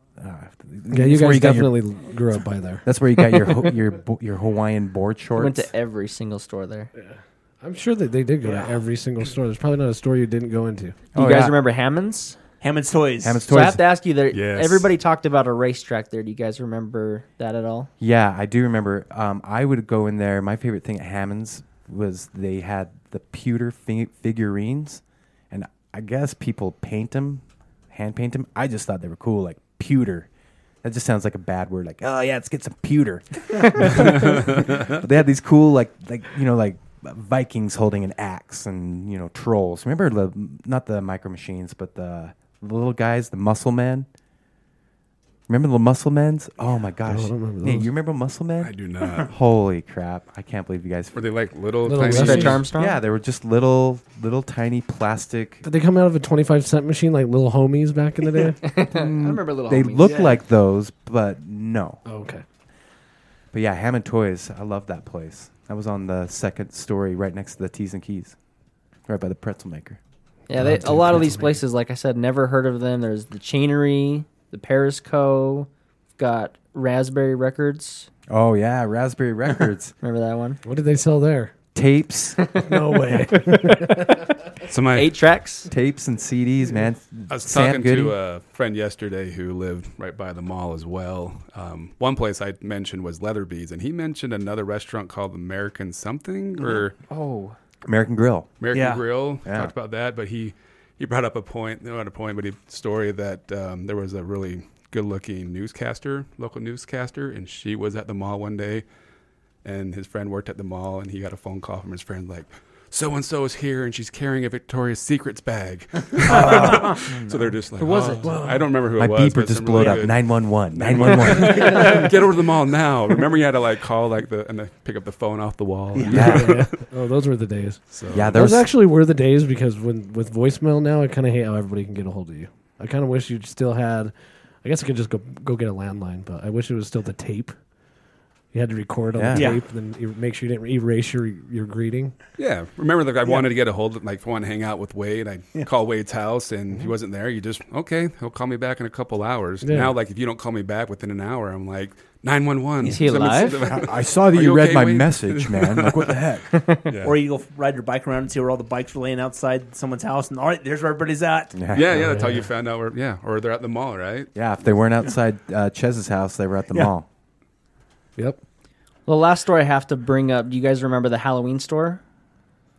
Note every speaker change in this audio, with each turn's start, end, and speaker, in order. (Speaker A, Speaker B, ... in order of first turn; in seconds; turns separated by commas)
Speaker A: 0.2-1.8, Speaker B: 0.9-2.9, Speaker A: 2.9-5.7, Speaker C: 5.3-6.9, Speaker B: 7.0-11.0, Speaker C: 11.2-12.4, Speaker A: 11.2-11.6, Speaker D: 12.6-13.5, Speaker A: 13.2-13.8, Speaker C: 13.5-17.9, Speaker E: 14.3-14.9, Speaker A: 18.0-30.3, Speaker A: 30.8-44.1, Speaker A: 45.5-51.2, Speaker B: 47.1-47.9, Speaker E: 48.6-49.3, Speaker E: 51.1-52.6, Speaker B: 51.9-52.7, Speaker C: 52.0-53.0, Speaker A: 52.2-55.6, Speaker B: 55.6-58.7, Speaker C: 58.5-60.3, Speaker A: 58.8-62.0, Speaker B: 60.0-60.4, Speaker B: 62.0-62.4, Speaker A: 63.5-68.4, Speaker A: 69.1-70.0, Speaker C: 70.5-78.1, Speaker B: 70.5-71.6, Speaker A: 78.3-79.9, Speaker C: 80.0-80.6, Speaker B: 80.6-81.5, Speaker A: 81.8-82.4, Speaker C: 82.4-83.9, Speaker B: 82.6-84.3, Speaker E: 84.7-85.2, Speaker C: 84.9-85.7, Speaker A: 85.7-88.2, Speaker E: 87.3-97.0, Speaker C: 97.1-97.6, Speaker A: 97.8-98.5, Speaker E: 98.6-108.8, Speaker D: 98.7-99.0, Speaker A: 99.5-99.7, Speaker E: 109.6-126.8, Speaker A: 116.2-117.0, Speaker D: 116.3-117.0, Speaker C: 117.0-118.3, Speaker A: 118.2-121.9, Speaker D: 119.8-120.0, Speaker D: 120.9-122.1, Speaker D: 126.0-126.3, Speaker A: 126.0-126.6, Speaker B: 126.1-134.1, Speaker E: 127.9-128.4, Speaker A: 128.1-128.7, Speaker B: 134.6-137.5, Speaker B: 138.5-142.2, Speaker A: 139.1-139.6, Speaker D: 139.3-139.6, Speaker E: 142.4-156.2, Speaker B: 149.6-149.9, Speaker D: 152.8-153.4, Speaker C: 152.8-153.7, Speaker A: 153.6-156.5, Speaker C: 156.5-156.9, Speaker E: 156.8-157.2, Speaker D: 157.0-161.6, Speaker A: 161.5-162.3, Speaker E: 161.7-164.3, Speaker B: 162.0-162.4, Speaker A: 164.3-167.1, Speaker C: 169.1-172.0